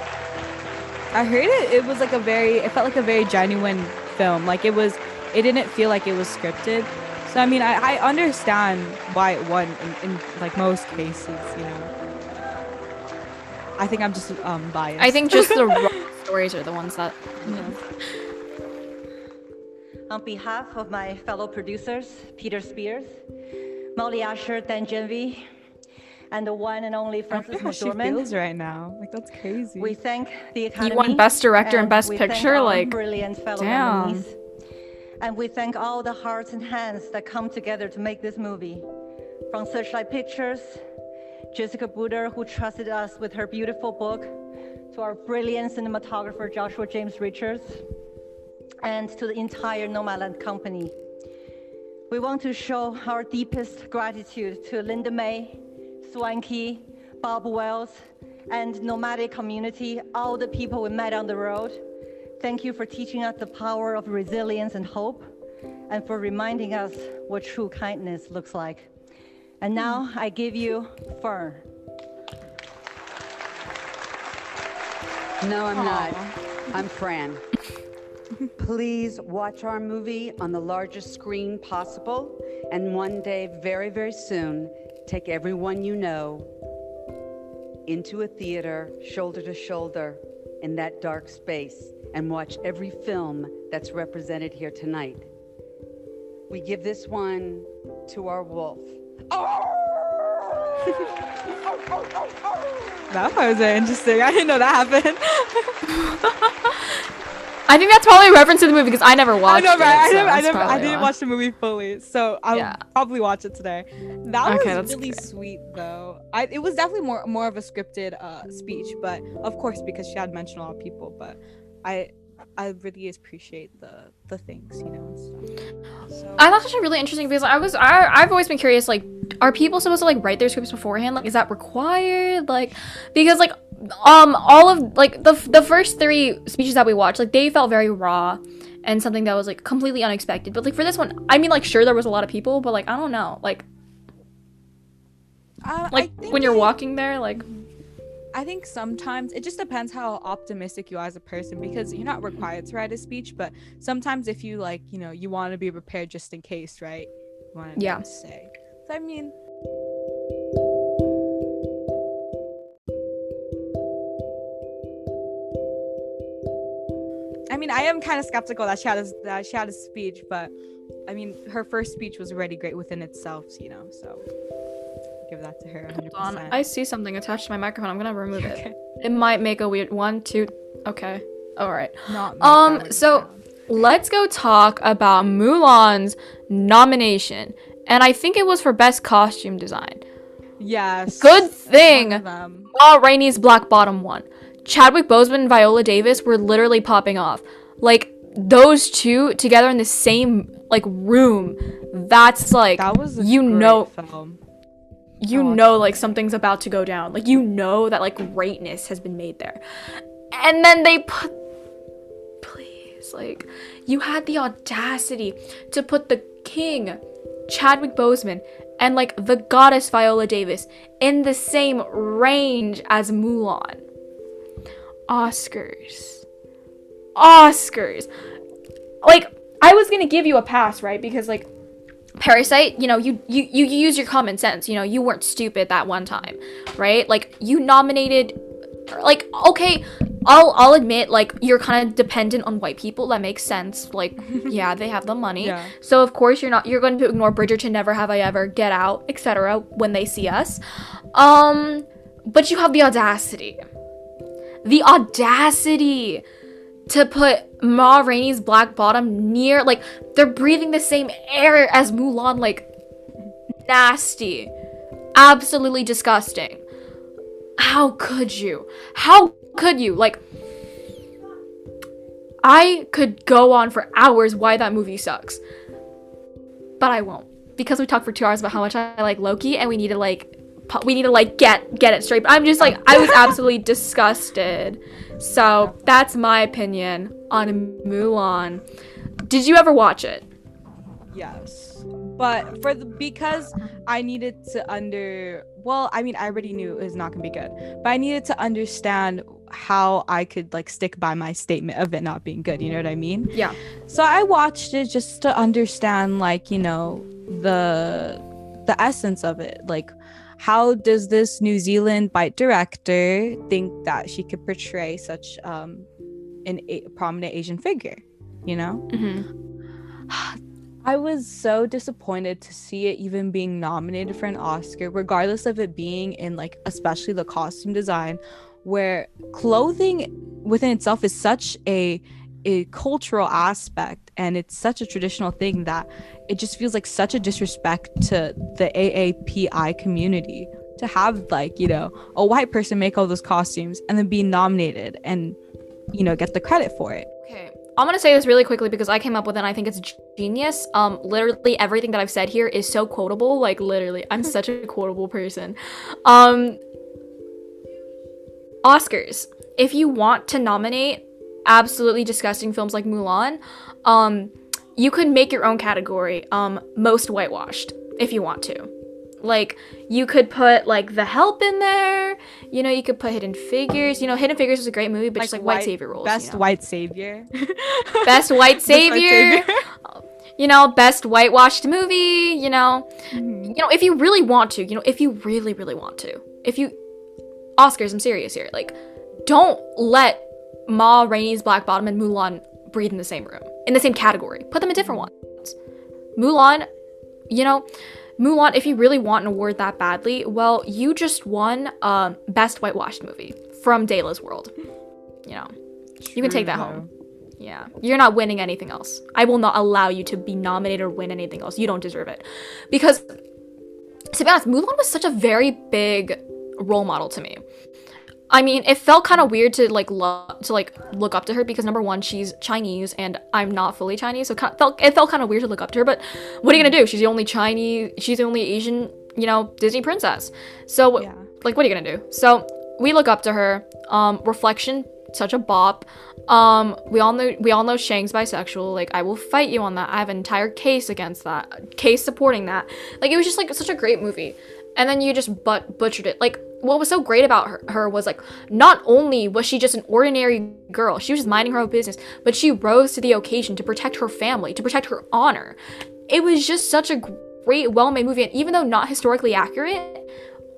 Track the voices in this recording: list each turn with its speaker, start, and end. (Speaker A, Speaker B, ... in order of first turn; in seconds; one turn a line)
Speaker A: 1.1-11.9
Speaker A: 13.8-15.9
Speaker B: 15.0-17.7
Speaker A: 17.4-17.8
Speaker C: 20.1-23.1
Speaker C: 24.0-25.5
Speaker C: 26.3-28.2
Speaker A: 27.3-30.0
Speaker C: 29.8-34.4
Speaker B: 30.8-33.0
Speaker B: 33.6-34.2
Speaker C: 35.2-38.9
Speaker C: 39.5-40.8
Speaker C: 41.5-44.3
Speaker C: 44.9-47.8
Speaker C: 48.8-51.0
Speaker C: 52.1-58.0
Speaker C: 58.5-61.8
Speaker C: 62.4-65.3
Speaker C: 65.9-68.9
Speaker C: 69.6-71.6
Speaker A: 69.8-70.0
Speaker D: 75.4-77.4
Speaker A: 75.7-76.3
Speaker D: 78.6-86.5
Speaker D: 87.9-95.3
Speaker D: 96.5-103.1
Speaker A: 103.1-105.8
Speaker B: 107.7-111.1
Speaker A: 109.5-125.5
Speaker B: 112.5-112.8
Speaker B: 114.5-115.2
Speaker A: 126.1-126.5
Speaker B: 126.4-143.7
Speaker A: 145.6-146.8
Speaker B: 145.9-147.5
Speaker A: 148.3-159.3
Speaker B: 157.8-158.0
Speaker A: 167.5-170.5
Speaker A: 171.1-174.2
Speaker A: 175.2-176.7
Speaker B: 175.9-190.0
Speaker A: 178.4-178.8
Speaker A: 182.1-183.4
Speaker A: 190.6-192.7
Speaker B: 191.2-203.9
Speaker A: 202.8-204.4
Speaker B: 205.2-209.6
Speaker A: 205.3-205.7
Speaker B: 210.3-211.3
Speaker B: 212.4-223.8
Speaker B: 225.1-226.2
Speaker B: 227.2-228.1
Speaker B: 229.0-231.5
Speaker B: 232.2-238.4
Speaker B: 238.9-250.6
Speaker A: 245.4-245.7
Speaker B: 251.1-253.6
Speaker B: 254.6-256.2
Speaker B: 256.9-262.7
Speaker B: 263.6-264.5
Speaker B: 265.1-266.6
Speaker B: 267.6-270.2
Speaker B: 272.4-275.4
Speaker B: 276.8-288.6
Speaker A: 282.6-283.4
Speaker B: 289.3-290.3
Speaker A: 291.1-303.3
Speaker A: 303.9-315.9
Speaker A: 316.4-318.8
Speaker B: 318.9-319.3
Speaker A: 320.1-345.4
Speaker A: 345.9-347.1
Speaker B: 347.2-356.6
Speaker B: 358.6-368.7
Speaker B: 369.2-376.4
Speaker A: 375.2-379.6
Speaker B: 378.1-379.5
Speaker B: 380.4-382.9
Speaker A: 383.1-383.6
Speaker B: 383.5-386.8
Speaker B: 387.6-388.8
Speaker B: 389.3-395.5
Speaker B: 396.2-396.7
Speaker B: 397.3-397.7
Speaker B: 398.2-404.5
Speaker B: 405.3-405.5
Speaker A: 406.0-406.9
Speaker B: 406.2-406.8
Speaker B: 407.4-413.1
Speaker B: 414.1-417.4
Speaker B: 418.3-455.6
Speaker A: 431.0-431.3
Speaker B: 456.1-460.0